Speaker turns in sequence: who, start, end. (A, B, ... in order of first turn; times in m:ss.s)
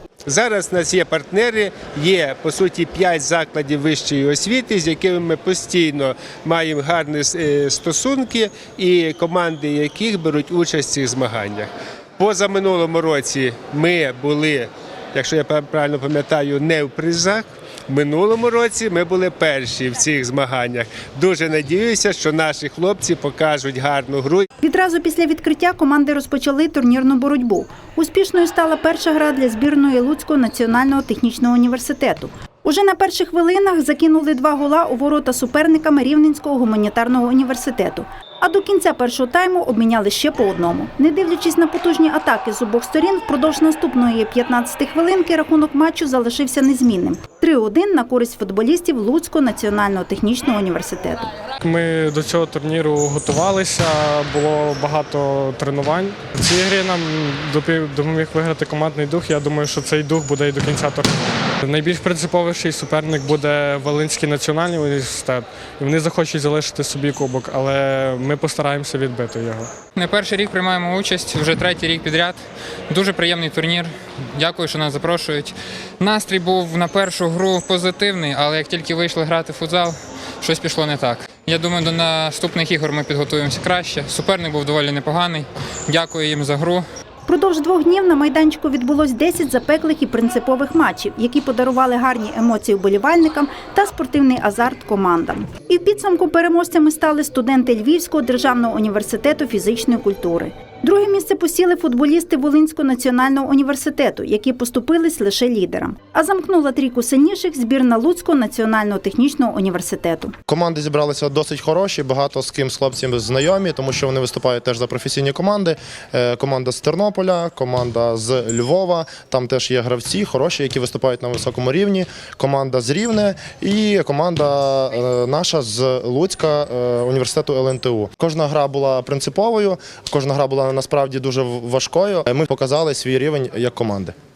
0:00.2-0:24.5 A
0:24.6-0:51.3 B
0:51.6-1:09.7 C
1:09.9-1:26.8 D
1:27.2-1:50.3 B
1:50.5-2:14.1 E